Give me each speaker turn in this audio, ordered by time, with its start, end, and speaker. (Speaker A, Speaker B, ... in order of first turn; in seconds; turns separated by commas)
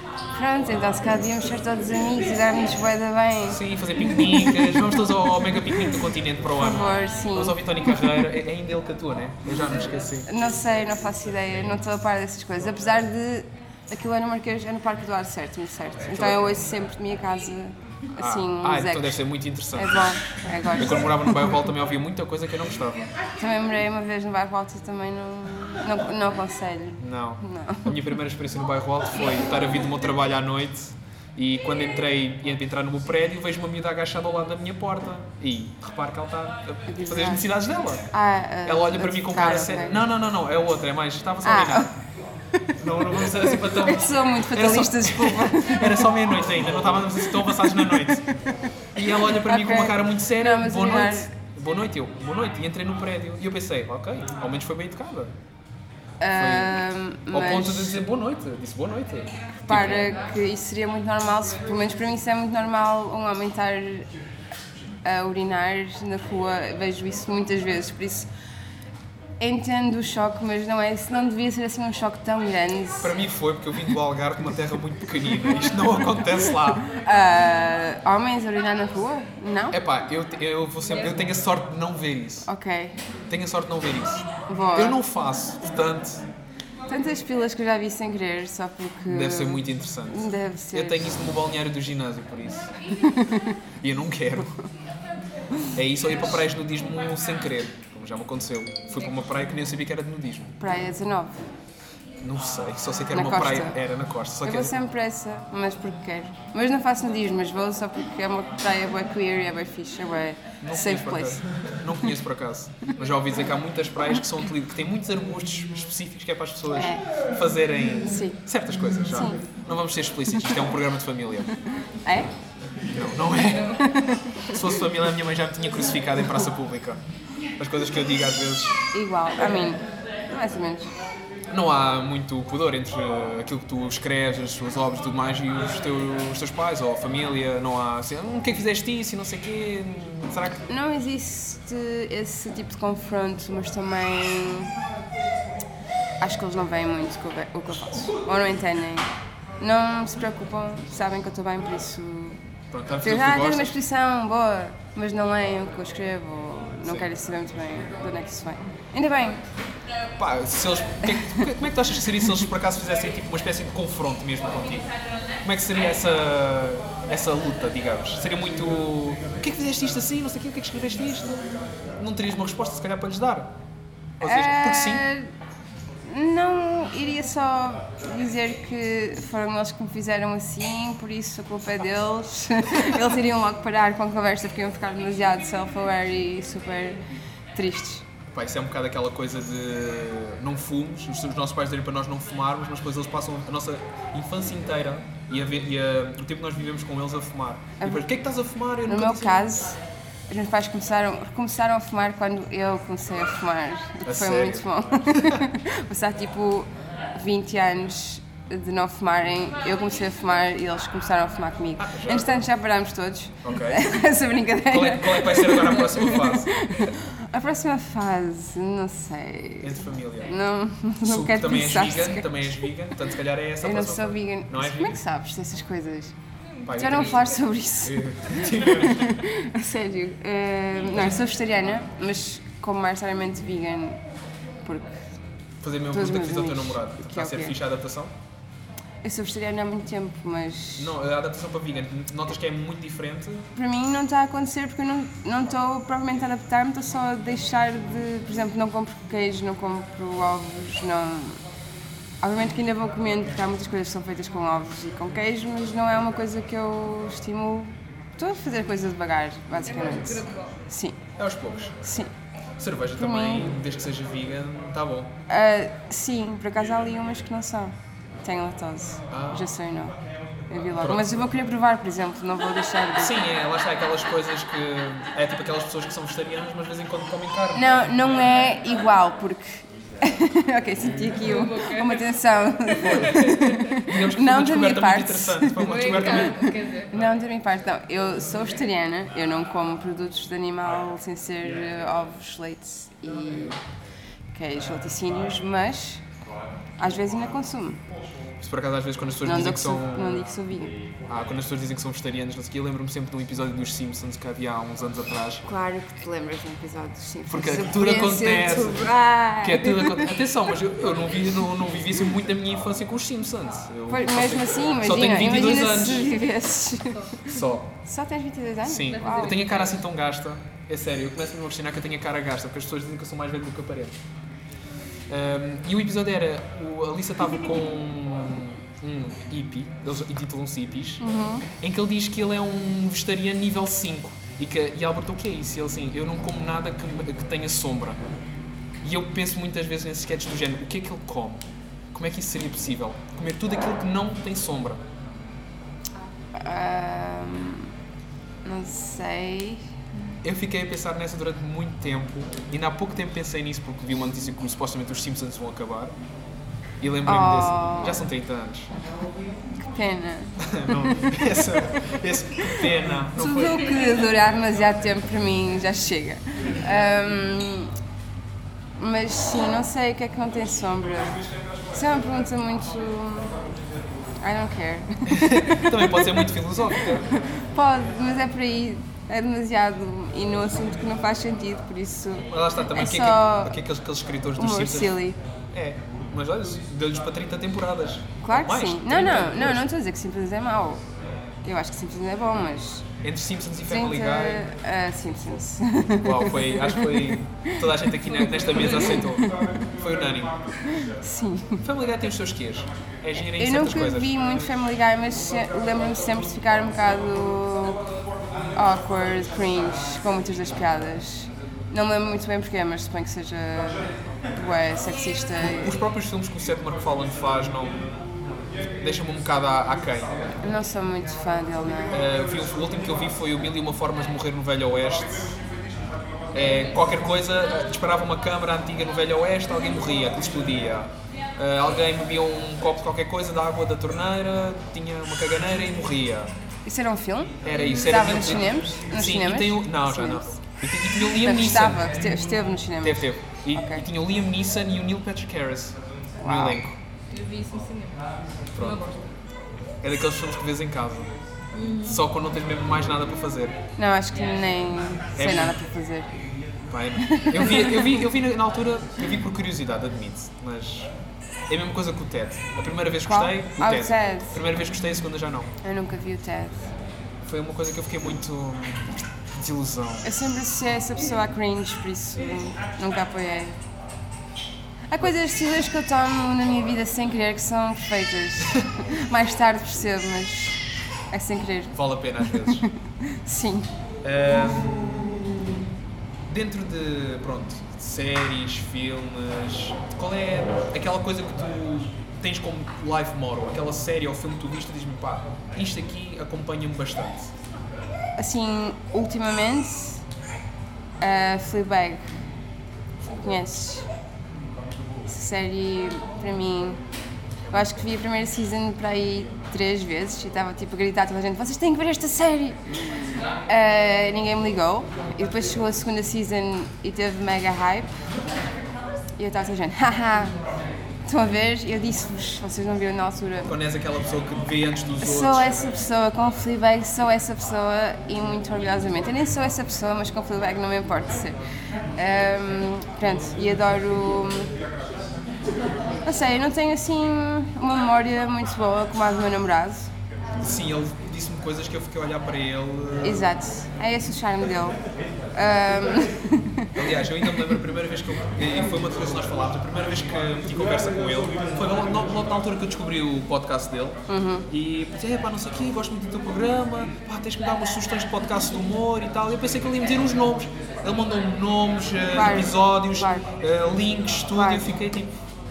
Speaker A: 0.3-5.1, Speaker B: 3.5-10.3, Speaker A: 6.6-8.2, Speaker A: 10.3-19.2, Speaker B: 16.1-16.4, Speaker B: 18.2-20.1, Speaker A: 19.7-21.5, Speaker B: 20.7-23.0, Speaker A: 23.4-28.0, Speaker B: 27.0-38.1, Speaker A: 36.9-37.4, Speaker A: 38.1-40.0, Speaker B: 38.6-41.9, Speaker A: 41.4-41.9, Speaker A: 42.5-46.1, Speaker B: 42.8-48.2, Speaker A: 47.3-51.3, Speaker B: 48.9-55.3, Speaker A: 56.2-58.0, Speaker B: 56.3-60.1, Speaker A: 59.7-64.1, Speaker A: 65.0-68.3, Speaker A: 69.4-73.1, Speaker B: 73.0-76.9, Speaker A: 76.7-79.8, Speaker B: 79.7-82.5, Speaker A: 82.5-83.0, Speaker B: 83.3-86.2, Speaker A: 84.5-85.0, Speaker A: 86.9-91.1, Speaker B: 89.1-92.7, Speaker A: 93.0-93.6, Speaker B: 93.8-94.5, Speaker B: 95.7-100.5, Speaker A: 100.6-101.4, Speaker B: 102.2-104.7, Speaker A: 103.1-103.8, Speaker A: 104.4-111.4, Speaker B: 110.6-121.5, Speaker A: 116.7-117.0, Speaker A: 118.0-118.4, Speaker A: 119.1-119.4, Speaker A: 122.0-122.3, Speaker B: 122.9-127.0, Speaker A: 123.6-124.8, Speaker B: 127.6-128.8, Speaker A: 128.9-130.9, Speaker B: 131.5-140.6, Speaker A: 140.7-144.7, Speaker A: 146.2-152.4, Speaker B: 152.7-153.8, Speaker A: 153.0-159.4, Speaker B: 156.8-157.1, Speaker B: 160.2-164.9, Speaker A: 161.0-161.6, Speaker B: 165.4-171.4, Speaker B: 172.0-173.5, Speaker A: 174.2-175.3, Speaker B: 174.2-175.0, Speaker A: 176.1-187.0, Speaker A: 187.5-188.1, Speaker B: 188.3-199.5, Speaker A: 197.8-198.1, Speaker A: 198.8-222.4, Speaker B: 204.1-205.4, Speaker B: 211.8-212.4, Speaker B: 213.4-213.9, Speaker B: 214.7-216.5, Speaker B: 219.6-220.3, Speaker B: 221.0-225.0, Speaker A: 223.6-226.2, Speaker B: 226.7-227.3, Speaker A: 226.7-234.0, Speaker B: 227.8-229.2, Speaker A: 234.6-234.9, Speaker B: 235.6-238.1, Speaker A: 235.9-237.6, Speaker A: 239.0-240.9, Speaker B: 240.8-243.5, Speaker A: 243.5-251.4, Speaker A: 252.2-261.0, Speaker C: 259.7-260.6, Speaker B: 261.2-261.8, Speaker A: 261.8-262.1, Speaker B: 262.6-265.1, Speaker A: 262.9-263.5, Speaker A: 265.3-270.0, Speaker B: 269.1-269.5, Speaker A: 270.5-273.2, Speaker B: 270.8-271.3, Speaker B: 273.0-277.8, Speaker A: 277.5-293.6, Speaker C: 281.2-282.1, Speaker C: 282.6-283.2, Speaker B: 282.8-286.4, Speaker C: 285.6-286.9, Speaker A: 294.3-296.0, Speaker A: 296.8-297.8, Speaker B: 298.4-300.2, Speaker A: 299.2-300.7, Speaker B: 301.1-305.4, Speaker A: 305.4-310.2, Speaker B: 307.3-316.1, Speaker A: 313.9-319.4, Speaker B: 317.2-317.7, Speaker B: 318.6-324.0, Speaker C: 318.9-319.8, Speaker B: 325.1-331.0, Speaker A: 331.0-331.4, Speaker B: 331.6-338.0, Speaker B: 338.8-344.8, Speaker A: 346.3-347.7, Speaker A: 348.4-349.7, Speaker B: 350.2-355.9, Speaker B: 356.8-358.7, Speaker A: 357.0-358.0, Speaker A: 359.7-367.7, Speaker B: 360.4-363.7, Speaker A: 368.8-371.1, Speaker A: 371.7-373.3, Speaker A: 374.2-376.2, Speaker B: 375.1-377.2, Speaker A: 377.5-383.6, Speaker B: 382.3-385.0, Speaker A: 384.4-385.2, Speaker B: 385.5-389.6, Speaker A: 388.2-390.8, Speaker A: 391.4-392.9, Speaker B: 393.0-394.4, Speaker A: 393.7-399.6, Speaker B: 396.0-400.3, Speaker A: 400.6-401.6, Speaker B: 401.6-404.1, Speaker A: 403.4-407.8, Speaker A: 408.5-415.8, Speaker B: 415.4-417.9, Speaker B: 418.8-420.3, Speaker A: 420.4-422.0, Speaker B: 421.9-425.3, Speaker B: 426.3-436.3, Speaker C: 426.4-426.7, Speaker A: 436.6-440.4, Speaker B: 437.4-441.8, Speaker A: 441.2-443.8, Speaker B: 442.8-446.8, Speaker A: 446.2-446.6, Speaker C: 447.1-449.1, Speaker B: 448.5-448.8, Speaker B: 449.8-451.1, Speaker C: 451.5-452.0, Speaker B: 451.8-453.6, Speaker A: 453.8-456.1, Speaker B: 455.1-455.6, Speaker B: 456.7-460.9, Speaker A: 457.0-458.0, Speaker B: 461.5-465.5, Speaker A: 463.0-464.4, Speaker A: 465.6-466.7, Speaker B: 467.2-468.8, Speaker B: 469.3-470.1, Speaker A: 470.0-473.6, Speaker A: 474.9-483.7, Speaker B: 481.7-482.7, Speaker B: 484.0-485.2, Speaker B: 486.2-497.3, Speaker A: 498.2-500.0, Speaker A: 501.0-502.1, Speaker A: 503.1-503.9, Speaker A: 505.0-506.8, Speaker B: 507.5-507.8, Speaker A: 507.5-512.6, Speaker A: 513.5-517.9, Speaker A: 519.2-520.4, Speaker A: 521.0-523.5, Speaker B: 523.4-525.6, Speaker A: 525.0-531.4, Speaker A: 532.0-534.5, Speaker A: 536.0-539.9, Speaker B: 540.4-543.3, Speaker A: 543.0-544.8, Speaker A: 545.3-547.6, Speaker B: 546.7-565.1, Speaker A: 554.1-554.5, Speaker A: 562.1-563.3, Speaker A: 564.3-564.7